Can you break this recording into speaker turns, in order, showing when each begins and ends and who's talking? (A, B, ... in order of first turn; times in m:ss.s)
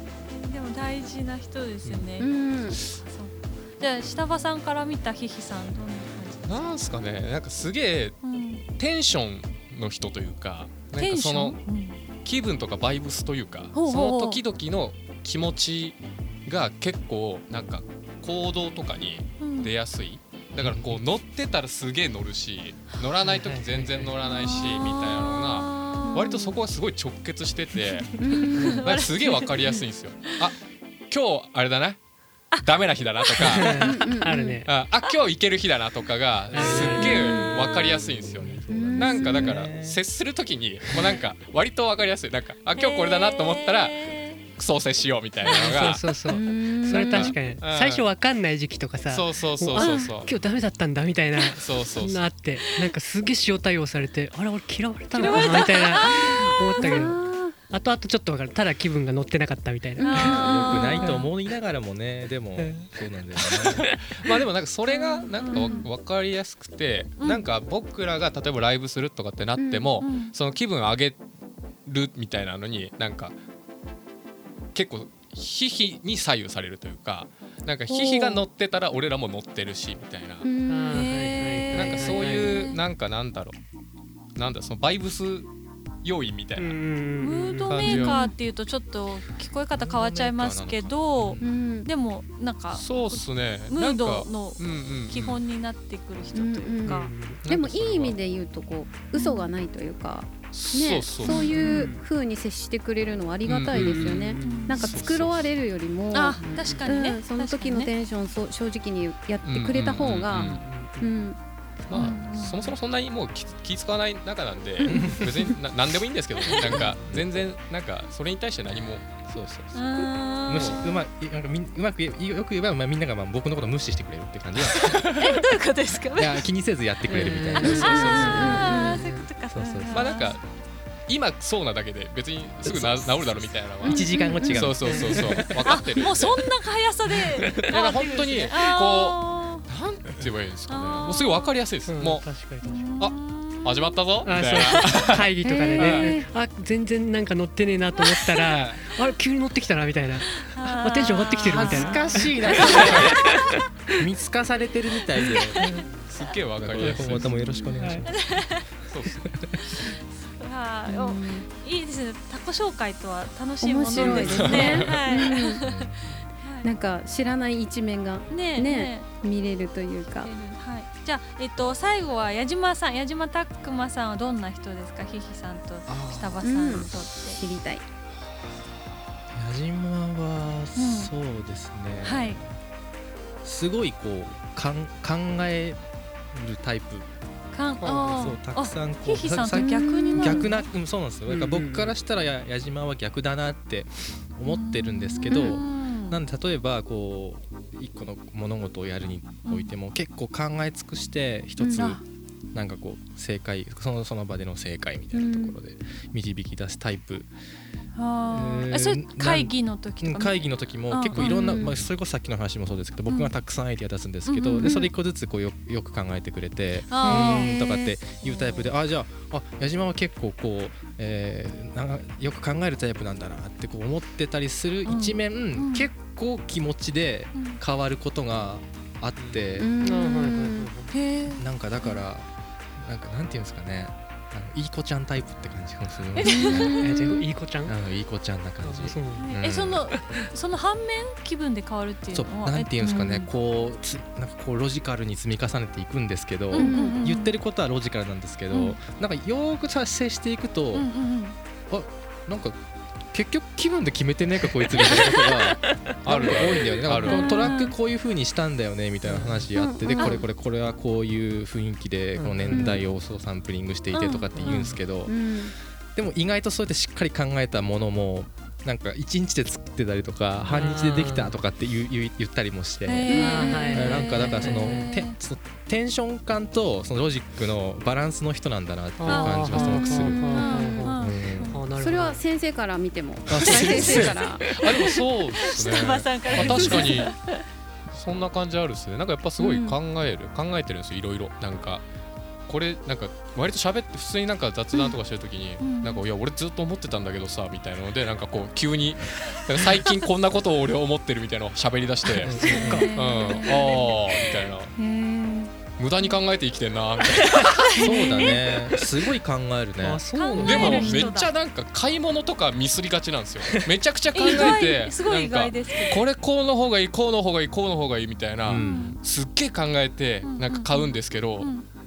0:00.3-0:06.7 A
0:02.2-0:02.8 B
0:06.4-0:11.6 C
0:08.2-0:08.6 A
0:11.0-0:12.0 A
0:12.2-0:30.6 C
0:13.7-0:14.4 A
0:19.4-0:19.7 A
0:23.2-0:24.1 D
0:24.4-0:26.6 A
0:28.2-0:28.8 B
0:28.5-0:30.4 A
0:31.1-0:32.0 C
0:32.6-0:33.9 C
0:33.2-0:33.6 A
0:33.5-0:34.7 D
0:33.7-0:34.4 B
0:34.2-0:34.5 A
0:34.6-0:44.0 C
0:36.5-0:37.4 D
0:36.6-0:38.0 A
0:38.0-0:40.0 E
0:38.7-0:39.5 B
0:42.8-0:44.4 A
0:44.5-0:46.1 C
0:45.4-1:00.5 D
0:46.3-0:47.4 B
0:46.9-0:48.0 C
0:49.1-0:50.3 C
0:49.8-0:50.1 B
0:49.8-0:50.1 A
0:51.6-0:52.3 C
0:55.2-0:57.1 A
0:56.8-0:57.5 B
1:00.0-1:01.1 B
1:00.0-1:01.2 A
1:00.2-1:03.9 E
1:02.6-1:02.9 D
1:03.5-1:04.0 D
1:03.8-1:11.2 C
1:04.9-1:05.9 A
1:05.6-1:05.8 B
1:07.2-1:07.4 A
1:09.6-1:10.0 B
1:10.0-1:10.3 A
1:11.9-1:13.4 C
1:14.7-1:20.4 C
1:17.9-1:18.4 A
1:20.4-1:21.0 B
1:20.7-1:22.6 D
1:20.9-1:22.8 A
1:21.7-1:23.6 C
1:24.4-1:25.5 C
1:26.0-1:26.8 C
1:26.6-1:28.2 D
1:27.2-1:37.1 A
1:27.7-1:28.3 C
1:29.8-1:31.3 E
1:31.4-1:31.9 B
1:32.7-1:35.4 C
1:36.3-1:51.4 B
1:36.8-1:37.4 D
1:37.4-1:38.2 C
1:39.1-1:39.5 A
1:40.5-1:41.5 C
1:41.2-1:41.9 A
1:41.3-1:42.0 D
1:43.4-1:45.5 C
1:43.7-1:44.9 D
1:44.4-1:44.9 A
1:46.1-1:47.9 A
1:46.5-1:46.9 D
1:49.4-1:50.6 C
1:50.3-1:51.2 D
1:51.9-1:59.7 C
1:51.9-1:52.7 A
1:54.8-1:55.3 B
1:54.9-1:55.3 E
1:56.6-1:57.3 E
1:59.7-2:00.9 A
2:00.5-2:05.1 E
2:00.5-2:00.8 C
2:04.8-2:05.3 C
2:04.9-2:06.4 A
2:06.1-2:08.6 E
2:07.1-2:09.3 D
2:07.6-2:10.4 A
2:07.6-2:08.6 C
2:08.1-2:08.9 B
2:09.5-2:10.1 E
2:09.9-2:10.4 C
2:11.1-2:16.4 C
2:12.6-2:15.6 E
2:13.9-2:14.5 A
2:14.4-2:14.7 B
2:14.8-2:15.4 D
2:15.4-2:19.6 A
2:17.5-2:22.2 C
2:20.7-2:21.5 A
2:21.9-2:22.8 D
2:22.6-2:23.9 A
2:23.0-2:26.1 C
2:24.2-2:33.6 D
2:25.4-2:26.3 B
2:28.0-2:28.5 A
2:28.4-2:28.8 C
2:30.3-2:33.4 A
2:31.4-2:33.4 E
2:32.8-2:33.1 C
2:34.0-2:35.6 E
2:35.3-2:35.8 A
2:36.1-2:37.4 C
2:36.6-2:38.3 E
2:36.8-2:38.0 D
2:38.1-2:38.6 A
2:38.9-2:39.3 C
2:39.2-2:39.8 E
2:39.8-2:46.7 A
2:40.9-2:41.4 B
2:43.6-2:45.6 B
2:44.2-2:45.0 C
2:45.6-2:46.2 E
2:46.6-2:50.3 B
2:48.3-2:49.1 A
2:50.2-2:57.4 A
2:55.9-2:56.8 E
2:56.4-2:57.8 B
2:59.3-3:02.5 E
3:00.8-3:01.1 A
3:02.0-3:02.4 A
3:03.4-3:05.8 E
3:06.3-3:07.1 E
3:07.5-3:10.6 A
3:07.8-3:22.0 E
3:09.5-3:10.5 B
3:11.3-3:11.9 D
3:14.4-3:16.2 A
3:15.3-3:15.6 B
3:19.4-3:19.7 A
3:21.6-3:21.9 B
3:21.8-3:22.0 A
3:22.5-3:27.3 E
3:25.1-3:25.6 B
3:27.9-3:31.7 A
3:28.3-3:49.7 E
3:31.2-3:31.8 B
3:34.2-3:34.9 A
3:36.9-3:38.7 A
3:37.0-3:37.5 B
3:44.9-3:45.9 A
3:47.4-3:47.6 A
3:49.6-3:50.7 B
3:49.8-3:50.9 D
3:50.9-3:51.9 A
3:51.4-3:56.8 E
3:56.2-3:57.2 A
3:56.4-3:56.8 B
3:56.8-3:57.8 D
3:57.6-3:59.9 E
3:58.6-3:59.3 D
3:59.2-4:03.3 A
4:02.1-4:10.9 E
4:06.5-4:07.4 A
4:06.5-4:07.0 B
4:10.8-4:11.4 A
4:11.7-4:12.6 E
4:13.1-4:25.1 E
4:16.0-4:17.4 C
4:17.0-4:17.8 A
4:19.0-4:19.5 D
4:19.5-4:20.2 B
4:19.9-4:20.2 A
4:22.2-4:22.8 D
4:22.5-4:22.8 B
4:23.9-4:24.7 A
4:24.4-4:24.7 D
4:25.0-4:25.5 B
4:25.9-4:40.2 E
4:30.5-4:31.4 D
4:32.8-4:35.2 A
4:33.1-4:33.6 B
4:33.1-4:34.9 D
4:39.0-4:42.2 D
4:39.1-4:41.6 A
4:39.9-4:40.9 B
4:41.0-4:41.6 E
4:41.7-4:44.5 B
4:43.3-4:44.2 E
4:43.3-4:47.1 C
4:43.8-4:47.4 A
4:46.4-4:46.7 B
4:46.4-4:46.8 E
4:47.9-4:51.8 C
4:49.4-4:49.8 B
4:52.5-5:04.7 C
4:55.6-4:56.0 A
5:02.2-5:04.4 A
5:02.2-5:02.9 E
5:02.2-5:02.9 D
5:04.8-5:05.5 B
5:05.8-5:08.0 C
5:07.2-5:08.8 A
5:07.8-5:10.0 E
5:09.8-5:11.1 D
5:10.1-5:11.3 A
5:10.4-5:21.5 C
5:14.1-5:16.0 A
5:18.4-5:18.9 E
5:18.6-5:19.0 A
5:20.2-5:21.6 A